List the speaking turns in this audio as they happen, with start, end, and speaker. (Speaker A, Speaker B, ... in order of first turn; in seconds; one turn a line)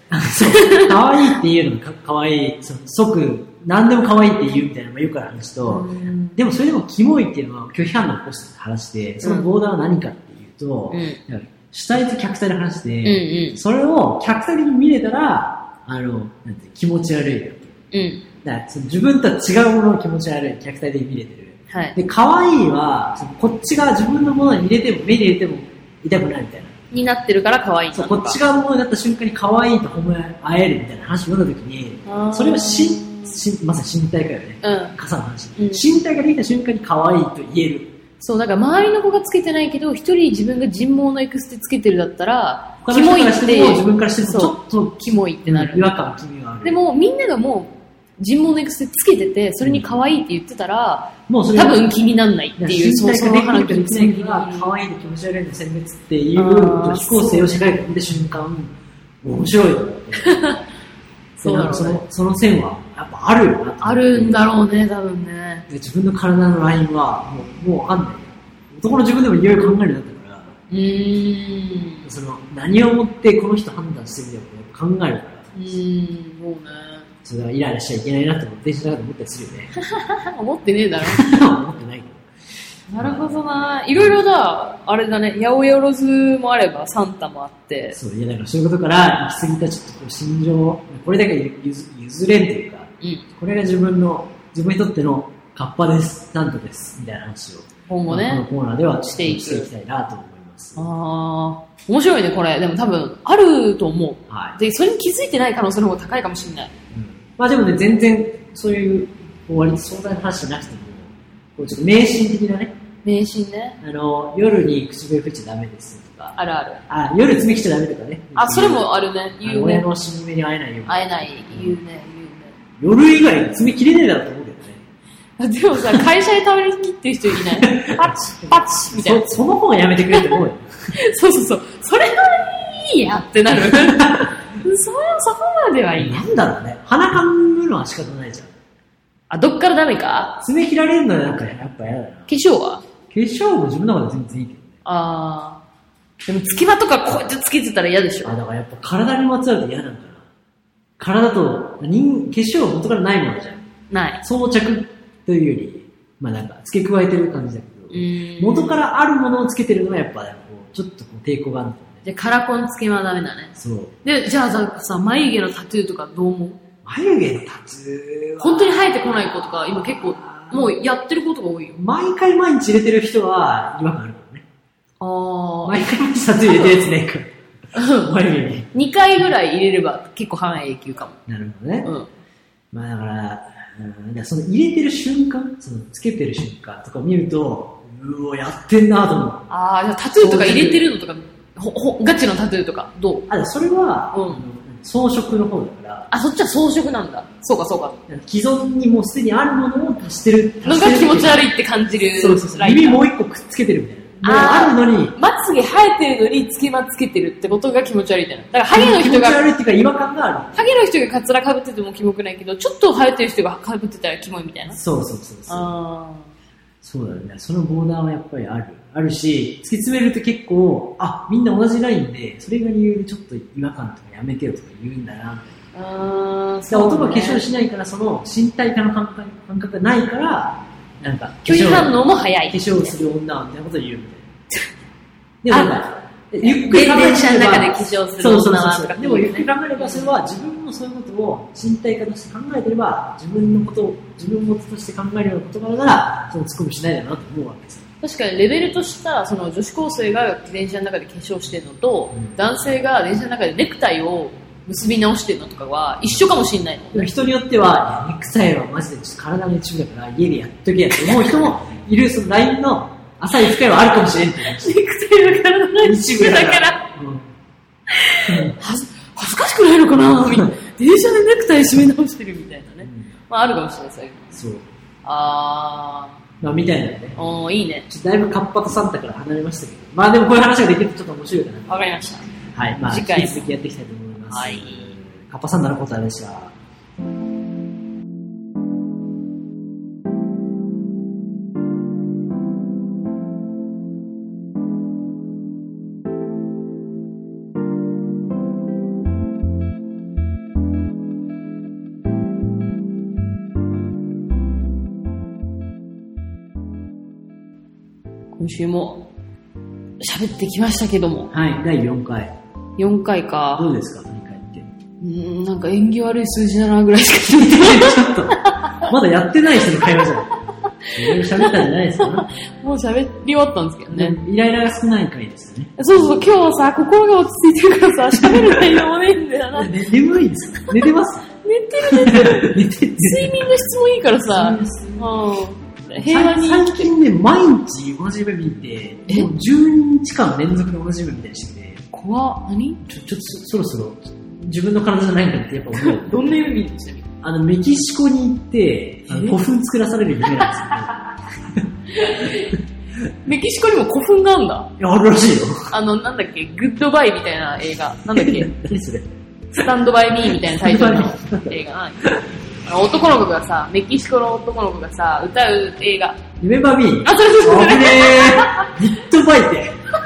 Speaker A: 0.1-17.7
Speaker B: 0.3-1.3
Speaker B: 5.6-6.4
Speaker B: 9.2-9.5
Speaker B: 10.9-11.2
Speaker B: 13.0-13.6
Speaker B: 17.9-18.2
Speaker A: 18.4-26.7
Speaker B: 21.7-22.0
Speaker B: 26.9-28.4
Speaker A: 27.9-37.9
Speaker B: 32.0-33.4
Speaker B: 34.6-35.0
Speaker B: 35.5-35.9
Speaker B: 38.2-45.9
Speaker A: 42.8-46.8
Speaker B: 46.6-54.7
Speaker A: 49.6-49.9
Speaker A: 51.3-51.9
Speaker A: 52.6-60.4
Speaker B: 56.4-57.5
Speaker B: 60.2-60.6
Speaker B: 61.4-62.0
Speaker A: 61.4-64.5
Speaker B: 63.8-65.7
Speaker A: 65.7-70.5
Speaker B: 70.7-72.0
Speaker A: 72.0-75.5
Speaker B: 75.5-77.1
Speaker A: 77.2-79.7
Speaker B: 79.8-81.2
Speaker A: 81.0-82.2
Speaker B: 82.9-88.0
Speaker A: 83.0-84.2
Speaker A: 87.9-100.9
Speaker B: 97.9-98.4
Speaker B: 99.2-99.7
Speaker B: 100.8-106.7
Speaker A: 104.3-104.6
Speaker A: 106.9-112.8
Speaker B: 113.0-113.8
Speaker A: 113.8-116.3
Speaker B: 116.3-116.8
Speaker A: 116.9-121.8
Speaker B: 118.3-119.9
Speaker B: 120.8-122.5
Speaker A: 122.8-124.8
Speaker B: 125.4-129.4
Speaker A: 127.3-130.9
Speaker B: 130.1-130.4
Speaker B: 130.9-136.2
Speaker A: 133.5-134.3
Speaker A: 136.0-138.5
Speaker B: 139.3-140.4
Speaker A: 140.4-142.3
Speaker B: 142.3-142.8
Speaker A: 143.1-144.7
Speaker B: 144.8-145.6
Speaker B: 146.2-148.4
Speaker A: 148.2-150.2
Speaker A: 151.0-153.7
Speaker B: 153.9-154.2
Speaker A: 154.2-162.0
Speaker B: 157.9-158.8
Speaker B: 162.0-166.6
Speaker A: 163.6-163.9
Speaker A: 166.8-168.9
Speaker B: 168.4-171.8
Speaker A: 169.7-170.8
Speaker A: 171.8-174.4
Speaker B: 175.0-176.8
Speaker A: 175.6-177.3
Speaker B: 177.7-178.1
Speaker A: 177.9-178.7
Speaker B: 178.7-181.2
Speaker A: 181.3-181.9
Speaker A: 182.7-189.5
Speaker B: 189.5-193.3
Speaker A: 190.2-190.9
Speaker A: 193.3-196.1
Speaker B: 194.1-194.4
Speaker B: 196.1-198.0
Speaker A: 198.1-201.5
Speaker B: 200.6-203.0
Speaker A: 202.1-205.2
Speaker B: 204.2-209.4
Speaker A: 208.7-210.6
Speaker B: 210.5-214.8
Speaker A: 214.7-215.7
Speaker B: 215.5-216.3
Speaker A: 216.8-225.6
Speaker B: 225.7-227.4
Speaker A: 226.7-234.3
Speaker B: 231.4-232.9
Speaker A: 235.4-247.8
Speaker B: 235.5-235.8
Speaker B: 236.4-240.1
Speaker B: 248.0-257.1
Speaker A: 256.9-264.8
Speaker B: 261.0-261.5
Speaker B: 264.5-266.9
Speaker A: 265.8-267.3
Speaker B: 267.9-274.4
Speaker A: 268.2-268.6
Speaker A: 270.1-270.4
Speaker A: 272.8-273.1
Speaker A: 274.3-274.7
Speaker B: 275.0-276.2
Speaker A: 276.4-277.2
Speaker B: 277.1-277.9
Speaker A: 277.9-281.8
Speaker B: 281.7-282.3
Speaker A: 282.5-286.6
Speaker B: 282.8-283.5
Speaker B: 284.3-284.9
Speaker B: 308.3-309.1
Speaker B: 310.0-311.3
Speaker A: 311.3-312.3
Speaker B: 312.8-313.7
Speaker A: 313.6-314.7
Speaker B: 315.0-318.8
Speaker A: 317.3-320.3
Speaker B: 319.8-320.1
Speaker B: 320.8-324.2
Speaker A: 320.9-322.3
Speaker A: 323.9-326.1
Speaker B: 325.8-329.8
Speaker A: 328.1-328.9
Speaker A: 329.5-331.3
Speaker B: 331.4-336.9
Speaker A: 331.8-335.1
Speaker A: 335.8-341.8
Speaker B: 339.1-339.3
Speaker B: 341.9-342.8
Speaker A: 342.8-346.3
Speaker B: 345.8-347.1
Speaker A: 347.2-352.4
Speaker B: 349.1-349.4
Speaker B: 350.4-351.0
Speaker B: 351.9-352.6
Speaker B: 353.2-354.7
Speaker A: 354.8-355.7
Speaker B: 355.7-358.5
Speaker A: 358.1-359.6
Speaker B: 359.5-362.0
Speaker A: 360.3-362.2
Speaker B: 362.6-366.2
Speaker A: 366.4-369.8
Speaker B: 367.0-368.7